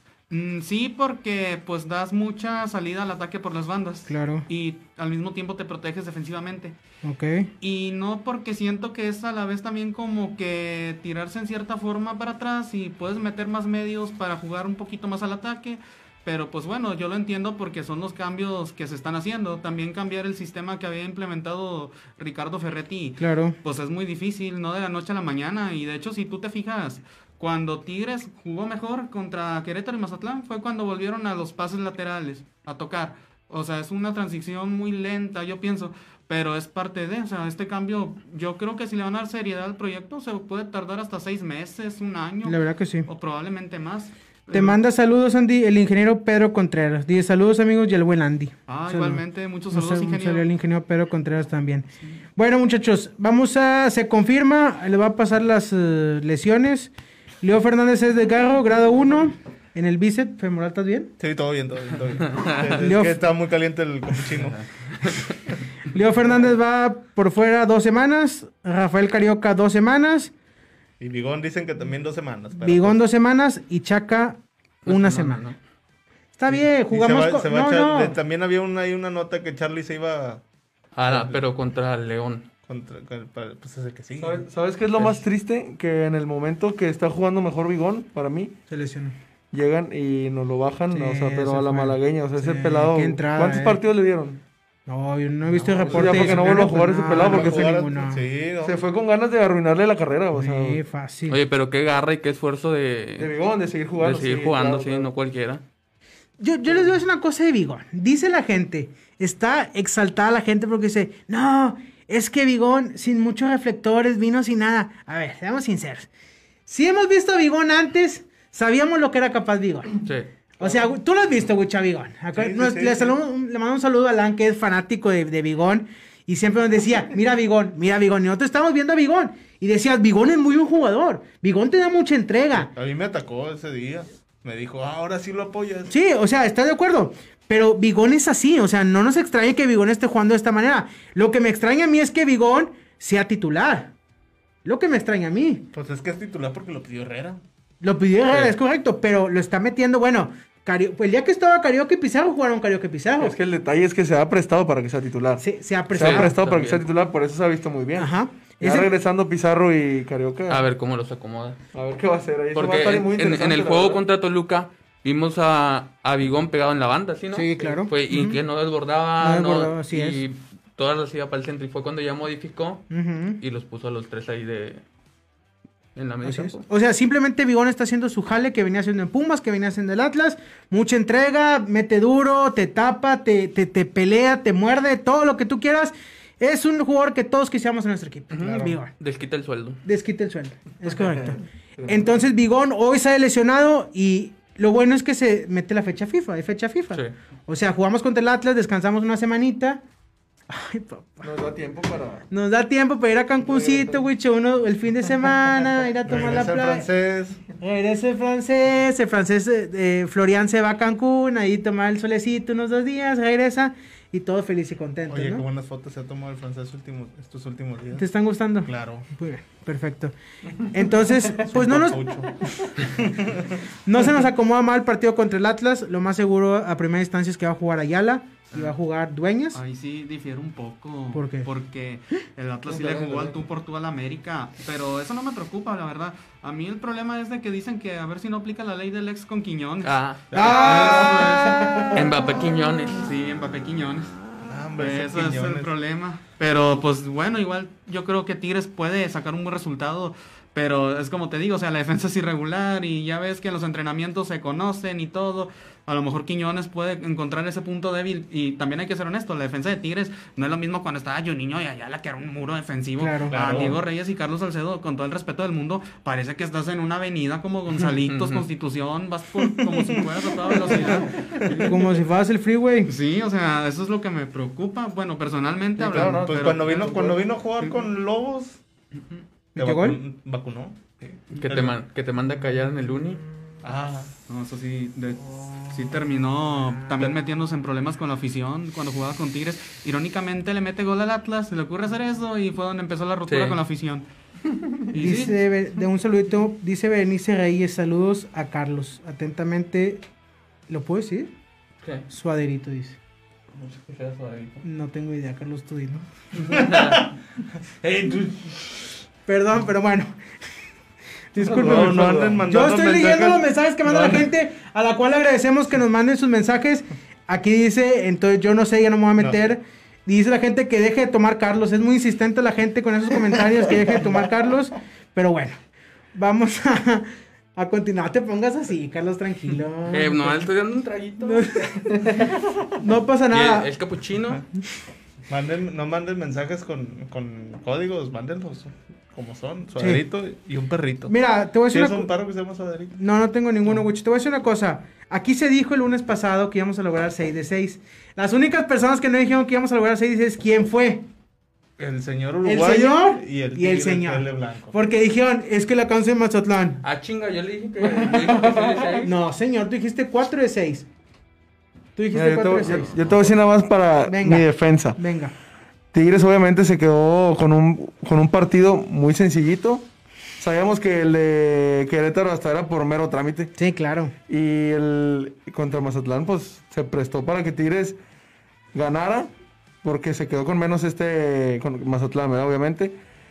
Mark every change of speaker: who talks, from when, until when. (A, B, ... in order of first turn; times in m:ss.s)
0:00.3-0:06.8 A
0:04.1-0:04.5 B
0:07.0-0:07.5 B
0:07.6-0:44.8 A
0:23.2-0:23.6 B
0:42.4-0:43.1 B
0:44.5-0:56.9 B
0:48.7-0:50.4 A
0:57.4-1:01.1 B
1:01.2-1:04.7 C
1:02.3-1:02.7 D
1:02.8-1:03.2 B
1:04.6-1:05.3 D
1:05.9-1:10.3 B
1:11.0-1:13.0 C
1:12.6-1:15.5 B
1:14.8-1:15.6 D
1:16.4-1:18.2 B
1:16.5-1:20.4 C
1:20.9-1:22.5 D
1:21.1-1:21.4 C
1:22.6-1:24.4 C
1:24.2-1:28.5 E
1:28.7-1:29.2 B
1:29.5-1:34.4 E
1:30.9-1:33.8 B
1:34.9-1:38.2 B
1:35.6-1:36.6 C
1:35.8-1:37.8 E
1:37.1-1:38.8 C
1:38.6-1:40.8 E
1:40.3-1:41.4 B
1:41.3-1:43.3 D
1:43.2-1:45.1 E
1:44.0-1:45.6 D
1:46.4-1:56.1 B
1:56.7-2:00.0 B
2:00.6-2:12.7 B
2:02.3-2:03.2 C
2:12.5-2:15.9 C
2:15.9-2:23.9 B
2:24.6-2:25.7 B
2:25.7-2:27.4 C
2:27.8-2:33.4 B
2:33.2-2:40.6 E
2:35.4-2:36.3 B
2:36.0-2:36.8 D
2:38.0-2:38.9 B
2:40.5-2:41.6 D
2:41.7-2:44.0 E
2:42.5-2:52.9 D
2:47.3-2:48.4 B
2:49.2-2:50.2 B
2:52.9-2:53.4 B
2:53.4-2:54.8 D
2:55.9-2:56.6 D
2:56.2-3:08.9 B
3:08.3-3:09.8 D
3:09.8-3:19.8 B
3:10.9-3:12.2 E
3:20.5-3:21.3 B
3:21.2-3:22.2 E
3:22.3-3:26.9 B
3:23.4-3:24.1 E
3:26.0-3:27.4 C
3:27.6-3:35.4 B
3:35.1-3:38.0 C
3:37.9-3:42.0 B
3:38.6-3:39.1 C
3:41.4-3:43.6 C
3:43.8-3:49.6 B
3:49.5-4:01.9 A
3:51.1-3:51.5 B
3:52.7-3:53.4 E
3:59.8-4:00.2 D
4:00.3-4:01.3 C
4:00.3-4:02.2 B
4:01.9-4:03.1 D
4:02.9-4:04.2 A
4:04.4-4:05.7 C
4:04.8-4:31.7 A
4:23.0-4:23.4 B
4:23.3-4:23.8 C
4:28.1-4:28.4 D
4:29.4-4:31.7 C
4:31.5-4:32.9 B
4:32.9-4:36.8 A
4:35.8-4:37.2 E
4:35.8-4:38.6 C
4:39.5-4:40.0 B
4:39.6-4:41.8 C
4:41.3-4:43.2 D
4:43.6-4:44.1 C
4:44.3-4:54.0 A
4:45.4-4:47.1 B
4:53.3-4:53.6 D
4:54.9-4:55.4 A
4:54.9-5:00.0 B
5:00.7-5:01.3 B
5:02.1-5:03.0 B
5:03.5-5:04.6 D
5:04.6-5:06.0 B
5:06.4-5:07.1 D
5:06.4-5:07.0 C
5:07.8-5:08.6 C
5:09.3-5:10.1 B
5:11.3-5:25.6 B
5:11.4-5:12.4 E
5:11.5-5:14.2 C
5:26.1-5:30.5 B
5:29.9-5:32.3 D
5:31.2-5:33.7 B
5:33.3-5:34.4 D
5:35.3-5:41.1 C
5:39.8-5:40.0 B
5:41.1-5:42.1 B
5:41.7-5:43.0 C
5:42.9-5:51.0 B
5:51.8-5:54.8 C
5:52.4-5:56.8 B
5:56.8-5:59.1 D
5:57.8-5:59.0 E
5:59.0-6:00.8 B
6:02.0-6:02.9 B
6:02.1-6:05.0 E
6:04.0-6:05.3 B
6:05.9-6:09.9 E
6:10.4-6:13.5 E
6:13.6-6:14.1 B
6:14.3-6:18.0 E
6:18.7-6:19.3 E
6:19.8-6:23.0 E